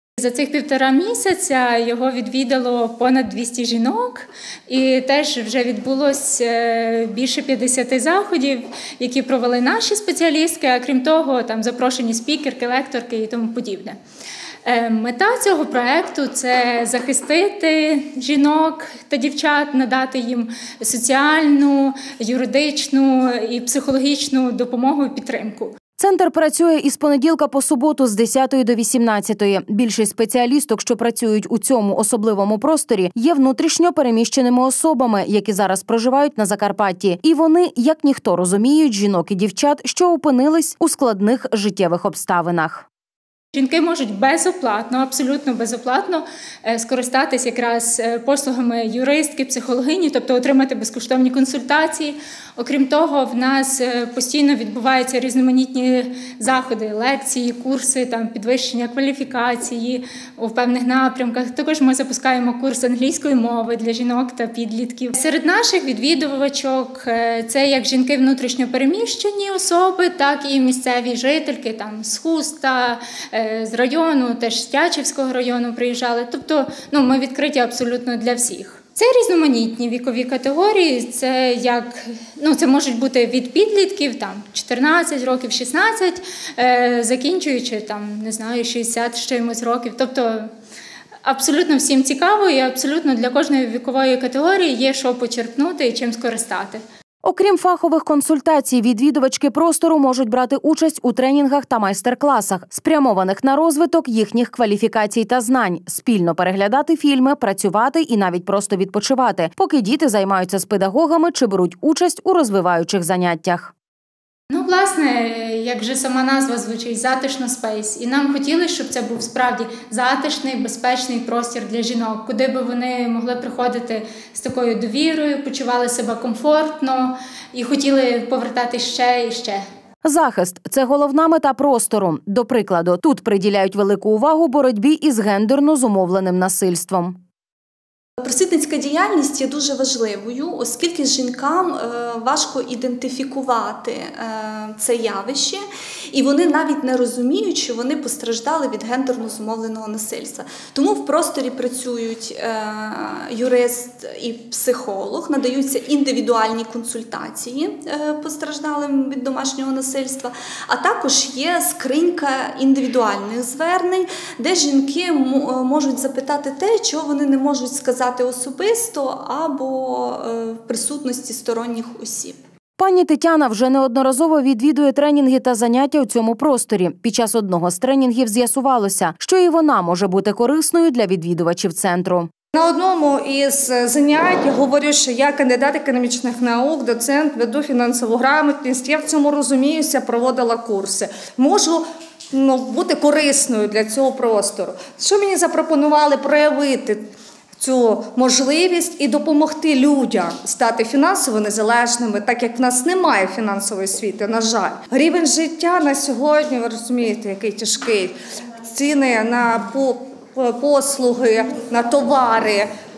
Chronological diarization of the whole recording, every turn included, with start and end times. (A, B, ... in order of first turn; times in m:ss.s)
0:00.2-0:14.0 A
0:14.6-0:25.7 A
0:26.0-0:42.9 B
0:43.5-1:30.5 A
1:31.2-1:36.8 A
1:37.2-1:53.7 B
1:54.5-2:09.6 A
2:10.0-2:17.2 B
2:18.2-2:52.4 C
2:52.8-3:02.3 B
3:02.5-3:17.0 D
3:17.6-3:28.1 D
3:28.7-3:32.7 D